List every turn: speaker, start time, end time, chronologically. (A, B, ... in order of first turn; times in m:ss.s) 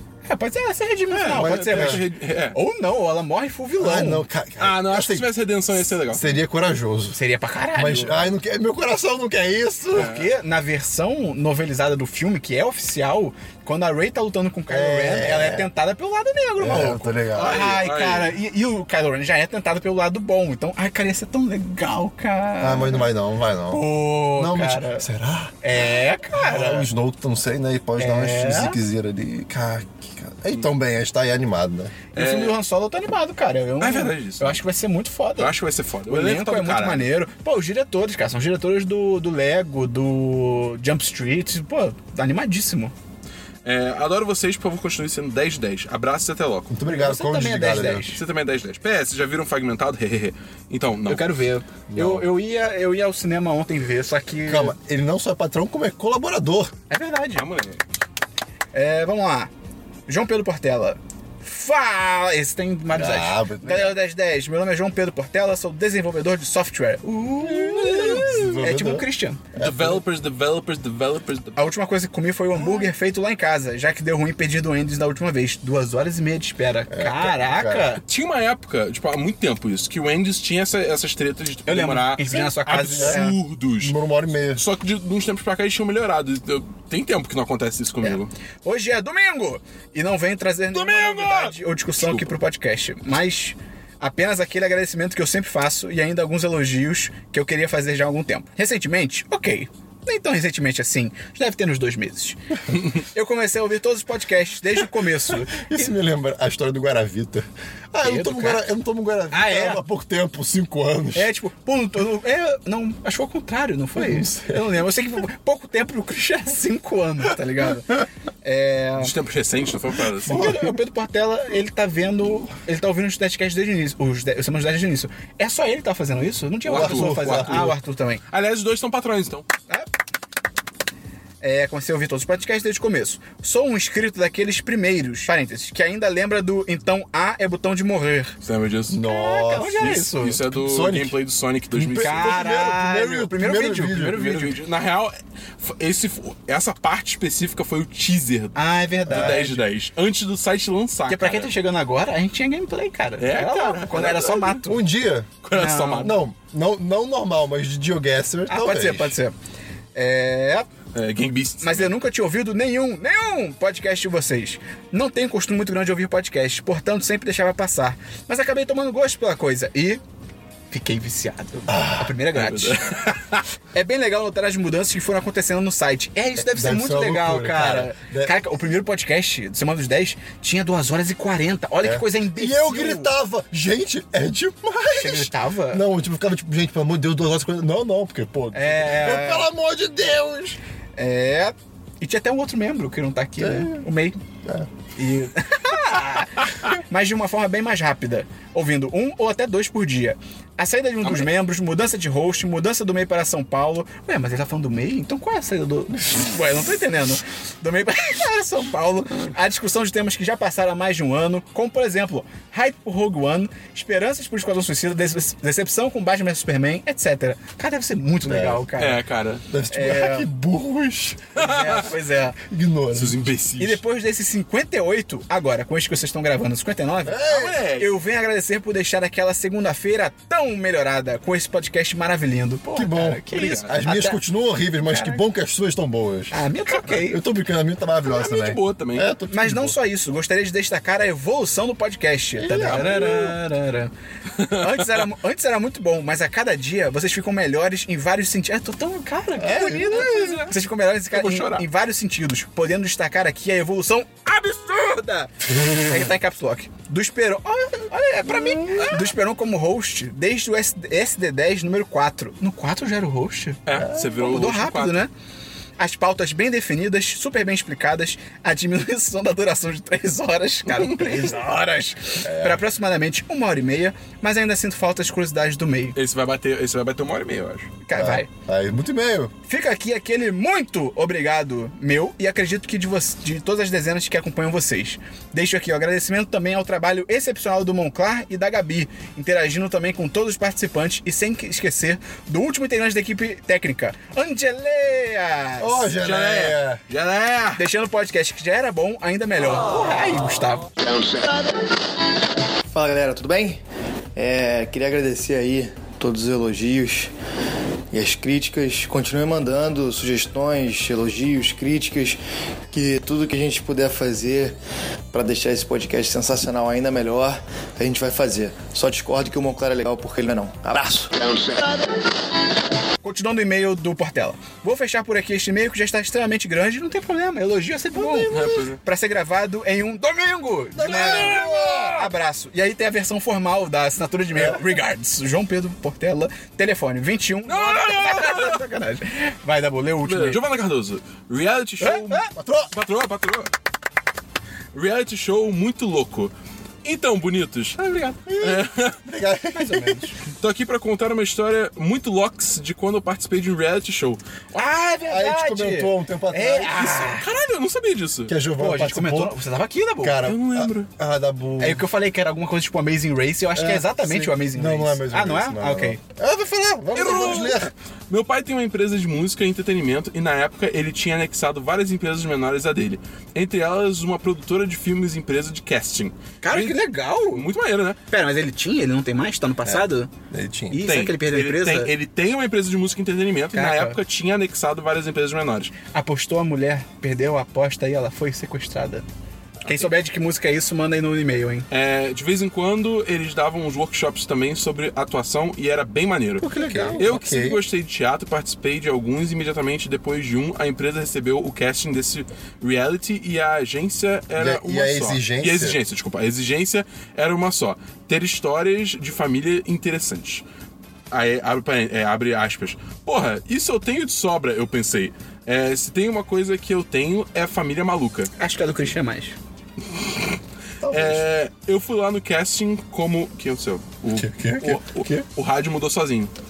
0:00.2-0:04.2 A
0:01.1-0:02.6 B
0:01.3-0:02.0 C
0:03.8-0:05.3 C
0:04.6-0:06.4 B
0:06.1-0:07.2 C
0:07.1-0:08.3 A
0:07.7-0:10.1 C
0:09.9-0:23.1 A
0:09.9-0:10.3 B
0:14.7-0:15.7 C
0:16.6-0:17.8 C
0:17.3-0:18.3 B
0:22.6-0:32.0 C
0:23.7-0:25.0 A
0:25.6-0:26.9 A
0:28.0-0:28.8 A
0:32.1-0:35.6 A
0:32.1-0:32.6 B
0:33.8-0:34.6 B
0:35.4-0:37.1 B
0:36.1-0:42.9 A
0:43.6-0:46.7 B
0:46.7-0:48.1 C
0:46.9-0:48.2 A
0:47.9-0:51.3 B
0:51.1-0:54.8 A
0:51.9-0:52.3 C
0:54.5-0:56.7 C
0:56.9-0:57.4 A
0:57.3-0:57.8 B
0:58.7-0:59.5 A
1:00.1-1:09.4 A
1:02.9-1:04.0 C
1:07.4-1:10.0 C
1:07.9-1:08.5 B
1:09.6-1:11.7 B
1:11.6-1:18.0 A
1:16.9-1:17.9 C
1:18.0-1:23.9 B
1:21.7-1:23.4 A
1:23.0-1:23.2 C
1:23.8-1:24.6 C
1:24.5-1:28.3 B
1:28.0-1:45.9 A
1:30.7-1:32.3 B
1:45.5-1:51.3 C
1:48.0-1:48.7 A
1:49.3-1:49.8 A
1:51.1-1:59.1 A
1:54.0-1:54.7 C
1:59.0-2:00.6 B
2:00.2-2:08.2 A
2:00.3-2:00.8 C
2:06.6-2:07.8 B
2:06.7-2:07.7 C
2:08.3-2:09.5 B
2:11.4-2:18.4 A
2:18.4-2:19.0 B
2:18.9-2:21.2 C
2:19.0-2:20.4 A
2:19.8-2:22.4 B
2:21.7-2:24.6 A
2:21.9-2:24.2 C
2:23.9-2:31.5 B
2:28.5-2:29.6 A
2:29.0-2:29.4 C
2:31.1-2:34.8 A
2:33.2-2:34.6 B
2:34.6-2:35.4 C
2:35.4-2:36.1 B
2:35.5-2:36.1 A
2:35.9-2:39.2 C
2:38.5-2:39.3 A
2:39.9-2:40.7 A
2:40.9-2:41.9 B
2:41.6-2:50.0 A
2:50.7-2:52.9 A
2:51.7-2:52.2 C
2:52.3-2:53.4 B
2:53.7-3:03.1 A
2:56.4-2:58.4 C
3:01.8-3:10.6 C
3:05.0-3:05.8 A
3:08.5-3:09.5 A
3:11.0-3:14.2 A
3:13.4-3:13.8 C
3:14.4-3:14.7 C
3:15.0-3:39.0 A
3:21.0-3:21.3 B
3:38.2-3:38.6 C
3:38.8-3:39.4 B
3:39.5-3:41.4 C
3:39.7-3:40.3 A
3:41.4-3:42.4 A
3:41.4-3:41.9 B
3:42.4-3:43.3 C
3:42.9-3:43.8 B
3:43.6-3:54.2 A
3:47.0-3:47.6 C
3:47.3-3:48.0 B
3:52.7-3:59.8 C
3:53.3-3:53.7 B
3:54.8-3:55.2 A
3:56.3-3:57.2 A
3:58.0-3:59.1 B
3:59.3-4:25.1 A
4:02.3-4:03.4 C
4:02.7-4:03.1 B
4:04.4-4:05.0 B
4:09.4-4:10.5 C
4:09.9-4:10.3 B
4:11.1-4:11.6 B
4:18.5-4:19.0 C
4:23.6-4:25.0 B
4:23.7-4:24.1 C
4:25.8-4:36.0 A
4:30.7-4:31.3 B
4:32.2-4:32.6 C
4:36.0-4:37.7 B
4:37.8-4:38.3 A
4:37.9-4:39.3 C
4:39.4-4:55.9 A
4:55.6-4:56.8 C
4:56.0-4:57.6 B
4:57.6-5:00.7 A
5:02.7-5:03.6 D
5:04.2-5:07.1 D
5:07.9-5:12.2 D
5:12.7-5:14.6 D
5:15.1-5:21.6 D
5:23.0-5:40.4 A
5:27.9-5:28.6 C
5:28.3-5:28.8 B
5:30.7-5:32.1 C
5:30.8-5:32.1 B
5:34.3-5:34.6 C
5:37.5-5:38.6 B
5:40.0-5:43.5 B
5:41.8-5:42.3 A
5:42.3-5:42.7 C
5:44.7-5:46.3 B
5:46.8-5:49.0 B
5:47.8-5:48.1 A
5:48.2-5:50.1 C
5:49.5-5:50.1 A
5:50.4-5:54.8 B
5:54.5-5:57.3 A
5:55.0-5:57.2 C
5:57.0-5:58.3 B
5:58.3-5:59.4 C
5:58.6-6:00.2 A
6:00.0-6:01.8 C
6:00.2-6:00.9 B
6:01.6-6:06.0 A
6:03.5-6:07.7 C
6:06.9-6:18.0 B
6:16.4-6:17.5 A
6:18.1-6:20.1 A
6:19.6-6:20.8 C
6:20.7-6:21.9 A
6:20.8-6:25.7 B
6:23.5-6:24.0 A
6:25.9-6:29.0 A
6:29.6-6:31.7 A
6:29.6-6:29.9 B
6:31.7-6:50.4 B
6:36.4-6:37.0 A
6:36.5-6:37.6 C
6:44.4-6:45.8 C
6:51.1-6:58.3 B
6:58.4-6:59.4 A
6:59.9-7:00.3 B
7:00.8-7:01.2 C
7:00.9-7:06.3 B
7:04.1-7:05.2 C